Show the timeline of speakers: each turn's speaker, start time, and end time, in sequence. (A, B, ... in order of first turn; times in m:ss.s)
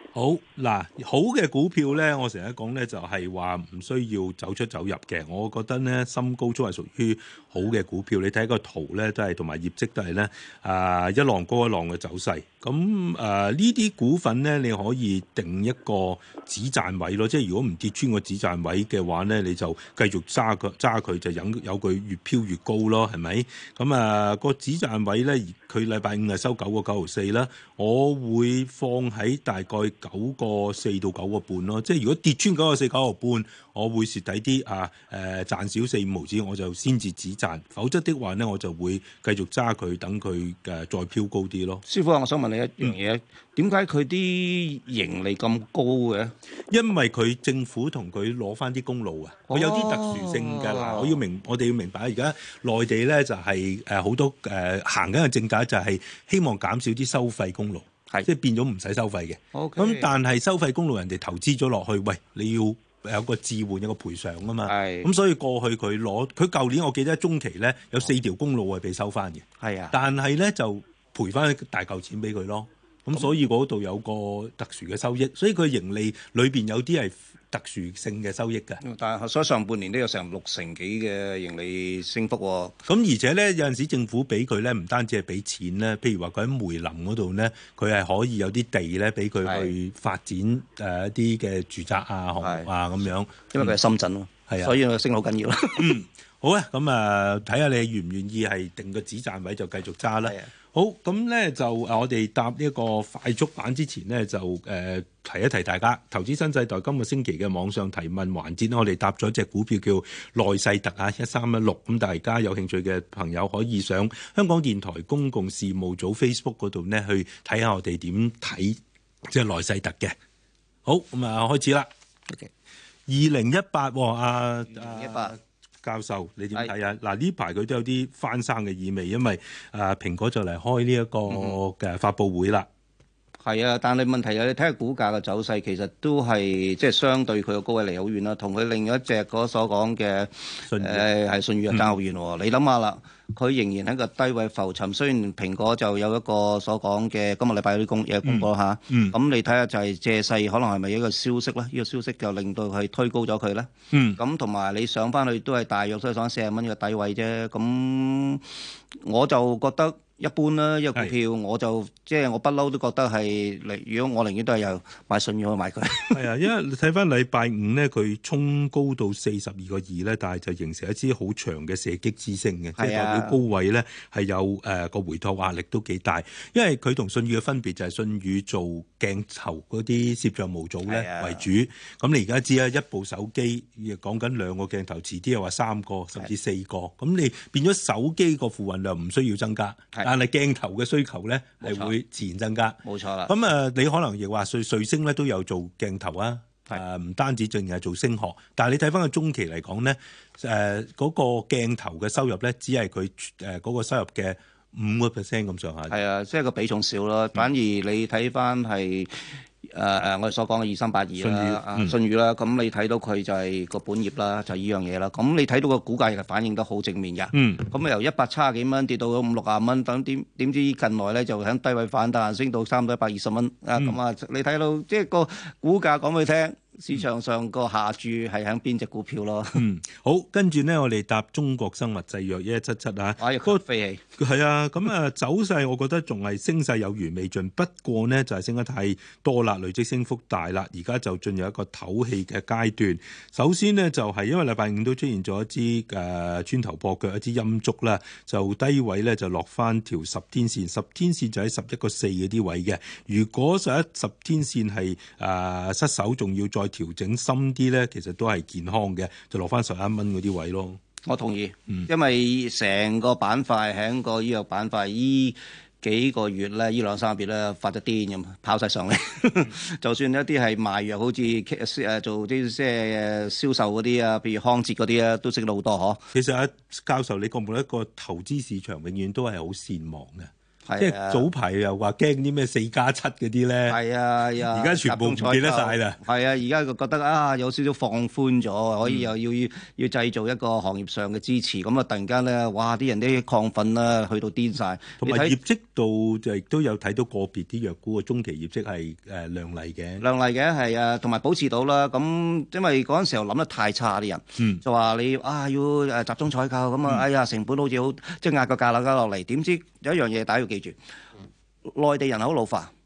0:00.1-0:41.8 A
0:41.8-0:46.3 B
0:46.7-1:18.8 A
0:49.5-0:51.2 B
0:59.5-1:00.1 B
1:04.6-1:05.1 B
1:09.6-1:10.0 B
1:18.8-1:22.8 B
1:22.8-1:33.8 A
1:29.4-1:29.7 B
1:32.4-1:32.7 B
1:33.5-1:36.0 B
1:34.5-1:34.7 A
1:35.8-2:00.2 A
1:40.2-1:40.5 B
2:00.8-2:01.9 A
2:03.1-2:12.7 A
2:04.7-2:05.4 B
2:11.3-2:11.6 B
2:13.4-2:38.4 B
2:20.7-2:21.0 A
2:28.2-2:29.1 A
2:33.9-2:34.2 A
2:39.0-2:46.2 B
2:46.1-3:26.0 A
2:52.8-2:53.4 B
3:00.8-3:01.4 B
3:11.6-3:11.9 B
3:12.8-3:13.3 B
3:25.9-3:49.6 B
3:31.2-3:31.9 A
3:37.3-3:37.7 A
3:49.5-3:53.6 A
3:53.2-3:54.0 B
3:54.2-4:20.8 A
4:21.0-4:36.0 B
4:36.1-4:43.8 A
4:40.6-4:41.3 B
4:43.7-4:55.4 B
4:44.4-4:46.0 A
4:55.0-5:00.0 A
5:00.0-5:10.8 B
5:11.7-5:12.7 B